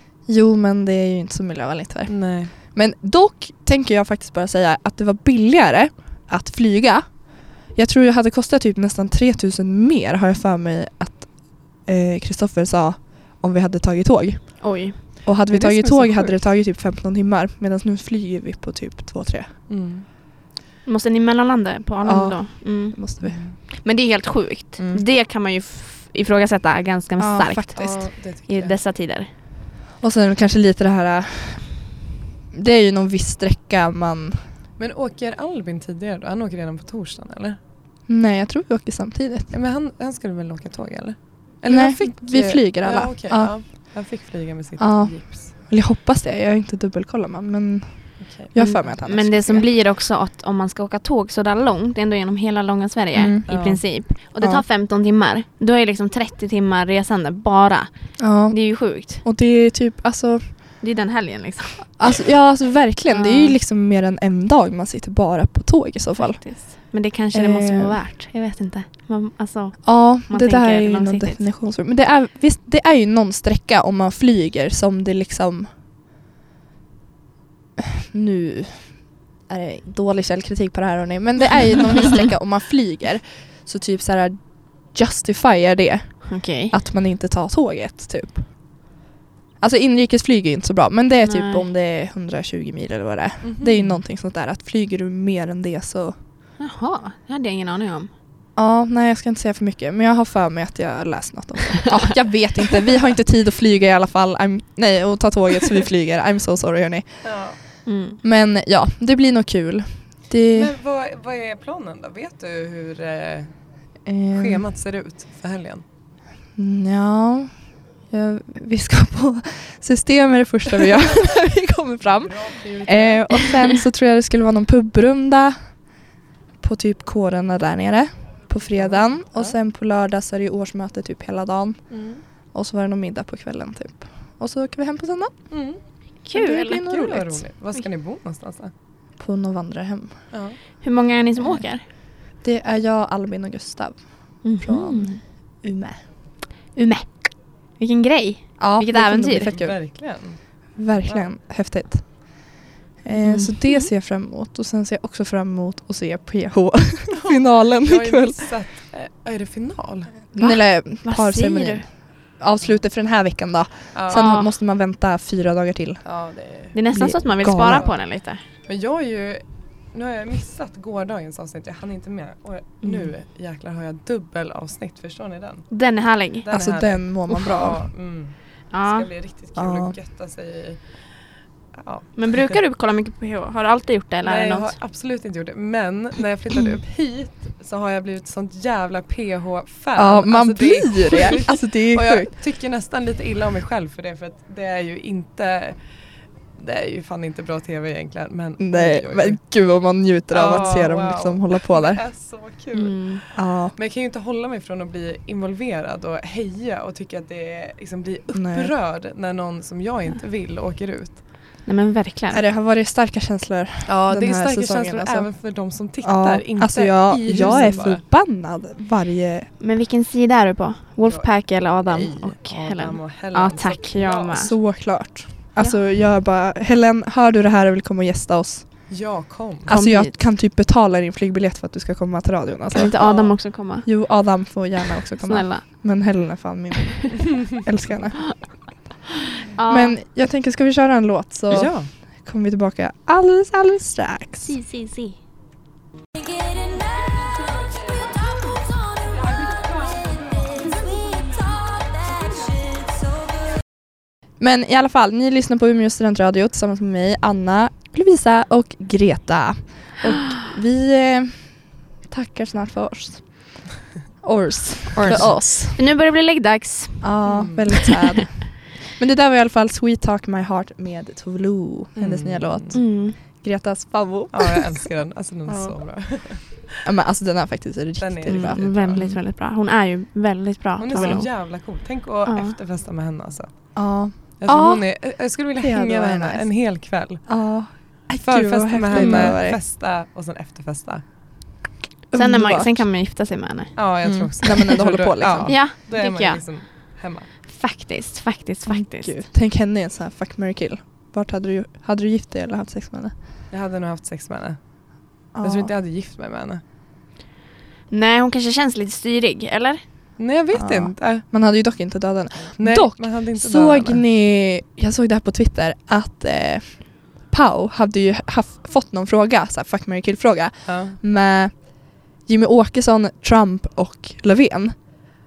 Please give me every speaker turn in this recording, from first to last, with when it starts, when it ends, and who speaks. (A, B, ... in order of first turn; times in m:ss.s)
0:00.3-0:19.5 A
0:02.1-0:02.5 B
0:14.6-0:15.0 C
0:15.5-0:16.4 B
0:19.7-0:20.1 B
0:20.9-0:23.0 C
0:22.0-0:23.4 A
0:23.2-0:23.6 B
0:23.7-0:29.3 C
0:27.2-0:28.1 A
0:27.8-0:28.8 B
0:30.0-0:32.0 A
0:32.5-0:34.5 A
0:34.8-0:37.6 B
0:38.1-0:39.5 A
0:39.5-0:45.5 B
0:41.7-0:43.9 A
0:44.8-0:49.7 A
0:48.2-0:48.9 B
0:48.6-0:59.2 C
0:53.1-0:53.5 A
0:53.5-0:53.8 B
0:58.2-1:00.6 A
1:00.8-1:01.9 C
1:02.0-1:06.6 A
1:03.1-1:03.6 C
1:06.2-1:11.4 C
1:07.3-1:08.0 A
1:09.8-1:15.7 A
1:17.8-1:28.5 A
1:26.3-1:26.8 C
1:29.6-1:36.2 A
1:31.2-1:31.7 C
1:33.4-1:34.0 B
1:36.6-1:38.1 C
1:38.6-1:47.3 A
1:47.2-1:47.6 B
1:47.9-1:48.2 C
1:48.2-1:50.7 A
1:50.5-1:53.5 B
1:54.0-1:54.6 A
1:54.3-1:55.8 B
1:56.6-2:05.8 A
2:02.1-2:03.5 B
2:06.6-2:12.0 A
2:08.8-2:09.6 B
2:11.9-2:12.2 B
2:12.5-2:15.5 A
2:15.5-2:15.8 B
2:16.2-2:16.8 C
2:16.3-2:17.4 A
2:16.8-2:18.7 B
2:19.2-2:20.3 A
2:20.3-2:20.6 B
2:20.8-2:21.8 C
2:22.4-2:26.0 A
2:24.4-2:25.2 C
2:26.7-2:29.5 C
2:28.6-2:29.9 A
2:29.4-2:30.4 B
2:30.8-2:32.4 A
2:31.0-2:31.3 B
2:33.0-2:38.5 A
2:33.1-2:33.9 C
2:37.1-2:40.2 B
2:40.3-2:46.0 A
2:40.4-2:41.8 C
2:43.9-2:44.3 B
2:44.1-2:44.5 C
2:46.0-2:46.8 B
2:46.7-2:48.4 C
2:46.9-2:47.9 A
2:48.7-2:55.7 B
2:52.8-2:53.1 C
2:55.7-2:56.5 C
2:56.4-3:01.0 B
2:56.5-2:57.8 A
2:58.7-2:59.1 C
2:59.6-3:00.0 A
3:01.8-3:02.6 B
3:02.2-3:04.8 C
3:04.2-3:15.8 B
3:10.0-3:12.3 A
3:16.6-3:19.4 B
3:18.6-3:22.0 A
3:20.3-3:31.2 B
3:22.7-3:23.2 C
3:23.4-3:23.8 A
3:28.3-3:28.7 A
3:31.6-3:32.4 C
3:32.3-3:35.3 A
3:33.9-3:38.0 B
3:36.0-3:39.5 A
3:39.6-3:44.6 C
3:41.0-3:44.5 B
3:44.3-3:48.9 A
3:48.9-3:49.8 B
3:49.7-3:50.2 C
3:49.7-3:52.9 A
3:52.7-3:54.1 C
3:53.0-3:53.4 B
3:53.8-3:58.4 A
3:55.2-3:55.7 C
3:59.6-4:00.0 C
3:59.7-4:04.6 A
4:01.5-4:01.9 B
4:04.4-4:05.2 C
4:09.5-4:10.1 B
4:14.4-4:23.6 A
4:24.2-4:25.8 A
4:25.0-4:25.4 B
4:25.0-4:27.9 C
4:27.0-4:34.9 A
4:27.3-4:27.7 B
4:32.0-4:32.8 B
4:32.7-4:33.2 C
4:34.3-4:36.8 B
4:35.5-4:35.7 A
4:36.8-4:39.2 A
4:38.0-4:39.1 B
4:38.3-4:41.3 C
4:40.8-4:43.5 B
4:41.0-4:41.2 A
4:42.3-4:42.6 C
4:43.8-4:44.9 A
4:44.2-4:47.3 B
4:45.6-4:46.5 A
4:47.3-4:49.6 A
4:48.2-4:51.0 B
4:48.9-4:49.4 C
4:52.1-4:52.8 A
4:52.1-4:53.8 C
4:53.8-4:57.3 B
4:54.0-4:55.6 A
4:55.5-4:56.4 C
4:57.5-4:59.2 C
4:58.7-5:03.2 A
5:03.5-5:04.6 B
5:05.3-5:06.6 B
5:05.4-5:05.7 A
5:07.9-5:09.8 C
5:10.2-5:11.2 B
5:10.5-5:25.1 A
5:12.6-5:14.0 B
5:20.7-5:21.0 B